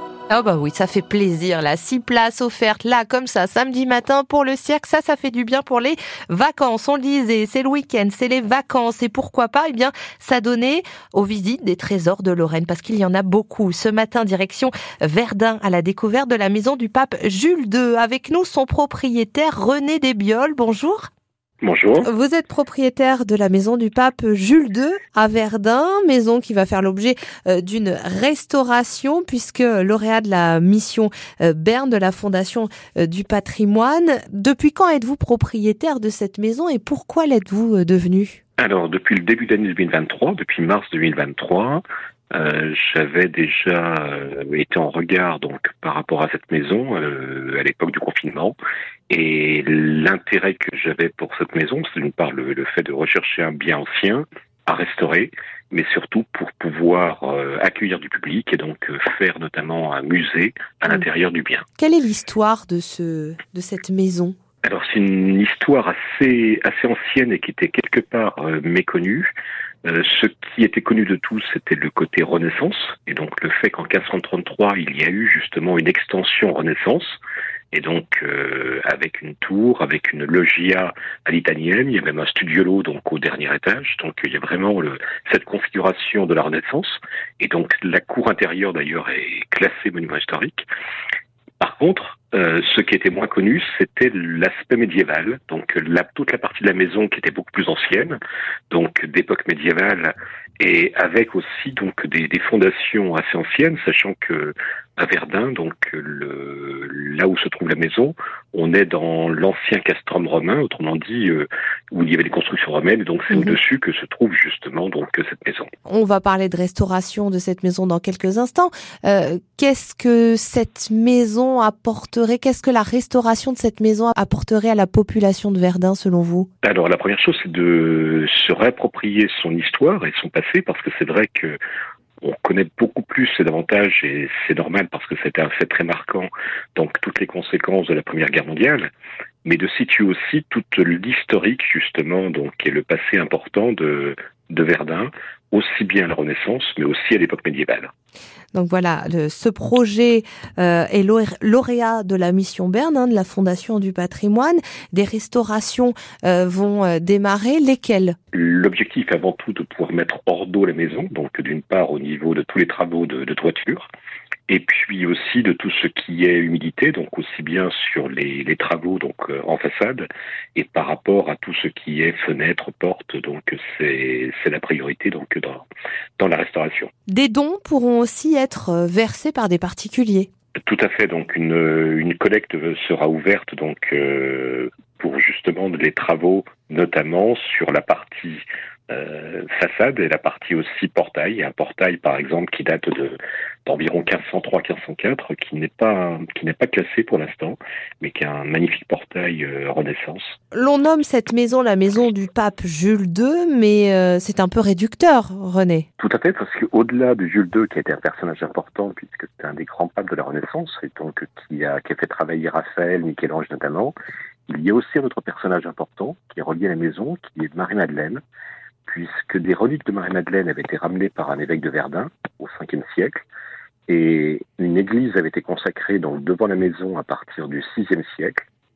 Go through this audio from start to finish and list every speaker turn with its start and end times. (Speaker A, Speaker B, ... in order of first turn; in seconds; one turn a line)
Speaker A: 0.3-21.1
Speaker B: 21.6-22.1
Speaker A: 22.0-38.4
Speaker B: 38.6-48.5
Speaker B: 49.1-61.6
Speaker A: 61.8-64.3
Speaker B: 64.6-69.3
Speaker B: 69.8-77.2
Speaker B: 77.7-90.7
Speaker B: 91.6-98.2
Speaker B: 98.7-115.7
Speaker A: 115.9-126.5
Speaker B: 126.6-131.6
Speaker B: 132.2-138.9
Speaker B: 139.4-147.9
Speaker A: 148.5-158.2
Speaker B: 158.3-163.9
Speaker B: 164.5-175.7
Speaker B: 176.2-176.9
Speaker A: 177.1-180.3
Speaker B: 180.6-200.4
Speaker A: 200.5-205.8
Speaker B: 206.0-213.9
Speaker B: 214.5-218.2
Speaker B: 218.8-223.2
Speaker B: 223.9-228.4